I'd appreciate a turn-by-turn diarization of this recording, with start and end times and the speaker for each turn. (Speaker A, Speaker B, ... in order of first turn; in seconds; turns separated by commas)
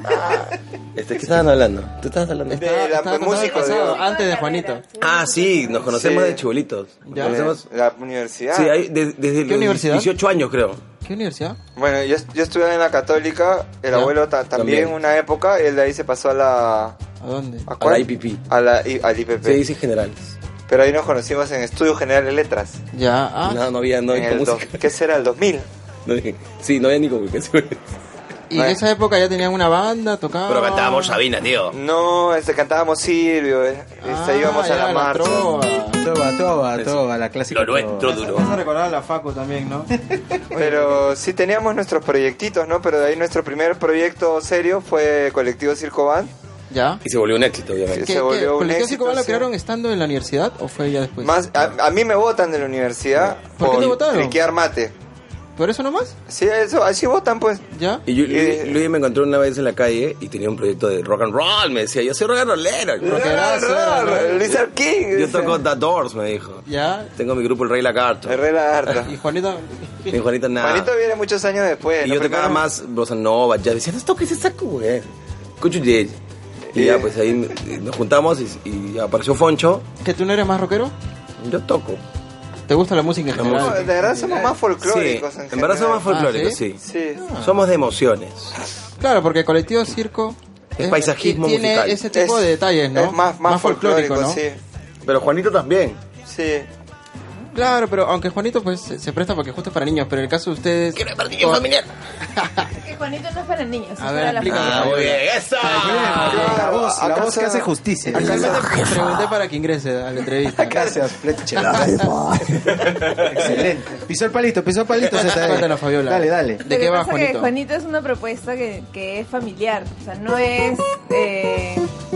Speaker A: 0.9-2.7, Speaker B: 2.5-4.8, Speaker C: 2.5-4.0, Speaker D: 3.4-5.9, Speaker A: 5.0-7.7, Speaker C: 5.9-6.4, Speaker B: 7.1-7.4, Speaker C: 7.1-8.8, Speaker A: 8.5-10.8, Speaker B: 9.5-10.1, Speaker B: 11.0-11.6, Speaker C: 11.8-17.0, Speaker A: 14.5-14.9, Speaker B: 17.2-17.7, Speaker C: 17.7-19.6, Speaker A: 17.8-18.4, Speaker A: 19.4-20.2, Speaker C: 20.7-22.8, Speaker B: 22.9-23.7, Speaker A: 23.4-24.8, Speaker C: 24.1-25.7, Speaker A: 26.1-27.9, Speaker B: 28.5-31.2, Speaker A: 30.5-31.8, Speaker C: 31.7-35.5, Speaker B: 34.0-36.1, Speaker E: 36.0-38.1, Speaker A: 37.5-38.6, Speaker B: 38.0-39.9, Speaker B: 40.5-41.1, Speaker C: 40.5-46.3, Speaker B: 46.7-47.0, Speaker A: 47.0-48.1, Speaker C: 47.9-49.5, Speaker B: 48.0-51.4, Speaker C: 51.2-54.9, Speaker B: 53.5-54.4, Speaker B: 55.6-56.1, Speaker C: 56.3-57.6, Speaker B: 57.7-58.0, Speaker A: 58.1-63.4, Speaker C: 58.3-58.8, Speaker C: 63.0-65.6, Speaker B: 63.0-64.6, Speaker A: 65.1-66.7, Speaker B: 66.7-67.1, Speaker A: 67.2-68.4, Speaker C: 68.2-69.1, Speaker B: 69.0-70.2, Speaker A: 70.1-70.9, Speaker C: 70.6-72.7, Speaker A: 72.0-75.1, Speaker A: 75.6-76.2, Speaker C: 76.7-77.1, Speaker A: 76.7-79.9, Speaker B: 80.0-80.9, Speaker A: 81.4-82.0, Speaker B: 82.7-84.3, Speaker A: 83.3-83.9, Speaker C: 83.4-86.0, Speaker A: 84.8-86.8, Speaker B: 86.1-86.6, Speaker C: 86.8-87.4, Speaker B: 87.2-87.5, Speaker A: 87.4-88.5, Speaker B: 89.0-94.4, Speaker A: 90.8-92.0, Speaker C: 92.1-94.6, Speaker A: 95.0-96.0, Speaker C: 96.3-96.7, Speaker B: 97.5-101.6, Speaker A: 100.9-101.9, Speaker B: 102.4-102.7, Speaker D: 102.7-104.9, Speaker B: 104.0-106.5, Speaker A: 104.4-106.6, Speaker E: 105.6-108.7, Speaker C: 106.2-108.3, Speaker B: 108.1-110.9, Speaker A: 108.2-109.3, Speaker E: 110.5-112.1, Speaker A: 111.5-113.4, Speaker E: 113.0-116.6, Speaker B: 115.1-117.5, Speaker D: 116.7-121.9